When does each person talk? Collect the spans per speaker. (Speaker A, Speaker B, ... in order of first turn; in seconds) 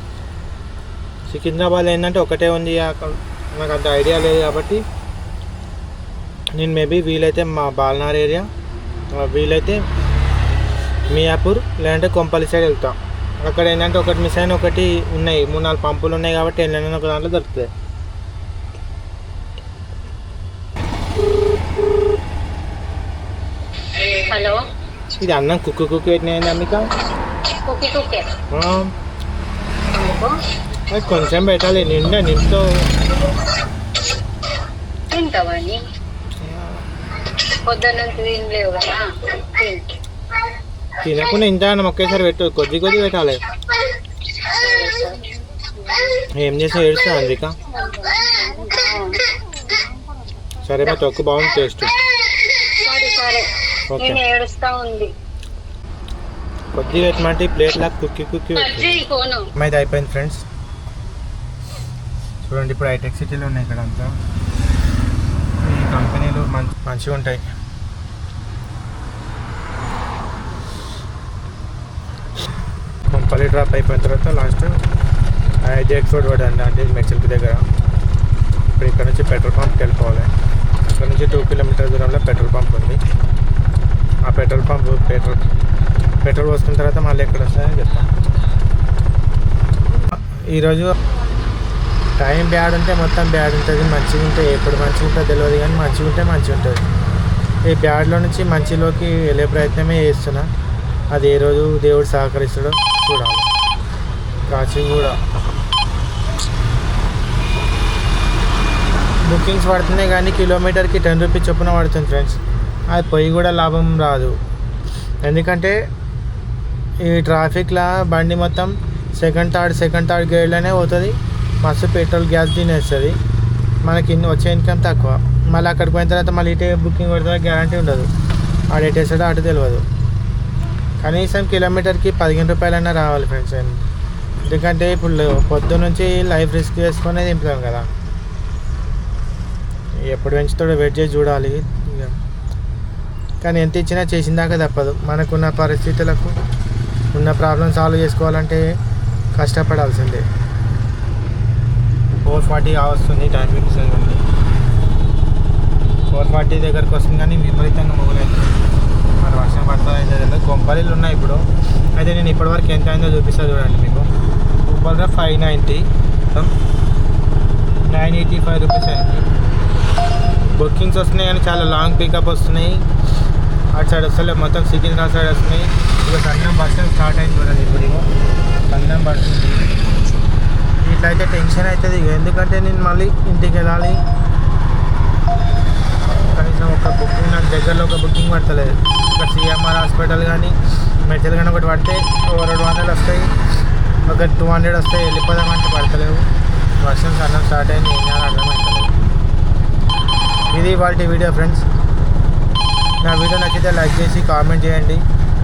Speaker A: 1.2-4.8, 6.5-8.5, 9.1-9.8, 11.1-17.7, 25.2-26.8, 28.5-28.9, 30.9-32.7, 36.4-36.8, 41.0-43.4, 46.3-47.5, 50.6-51.9, 53.9-54.2, 56.7-59.0, 59.5-60.4, 62.4-64.1, 65.6-67.4, 73.1-74.7, 75.6-77.7, 78.7-80.3, 80.9-83.0, 84.2-85.4, 86.2-88.1, 90.1-90.9, 92.2-96.8, 97.7-100.5, 101.1-103.5, 104.5-105.2, 109.3-112.4, 112.9-114.3, 115.2-115.8, 117.0-123.2, 123.8-128.1, 128.7-129.8, 131.0-133.8, 134.5-137.8, 140.1-142.1, 143.4-146.3, 147.1-148.6, 149.3-150.2, 152.2-154.2, 156.1-158.5, 159.2-161.4, 161.9-164.1, 164.7-166.5, 167.9-169.2, 170.5-172.8, 173.7-178.1, 178.7-179.6, 180.8-184.0, 186.3-193.3, 194.1-196.3, 196.8-198.9, 200.5-201.6, 203.0-205.0
Speaker B: 24.3-24.6, 27.6-28.3, 29.9-30.3, 35.1-35.8, 37.6-40.0, 44.5-45.2, 48.6-49.2, 52.8-55.1, 58.6-59.5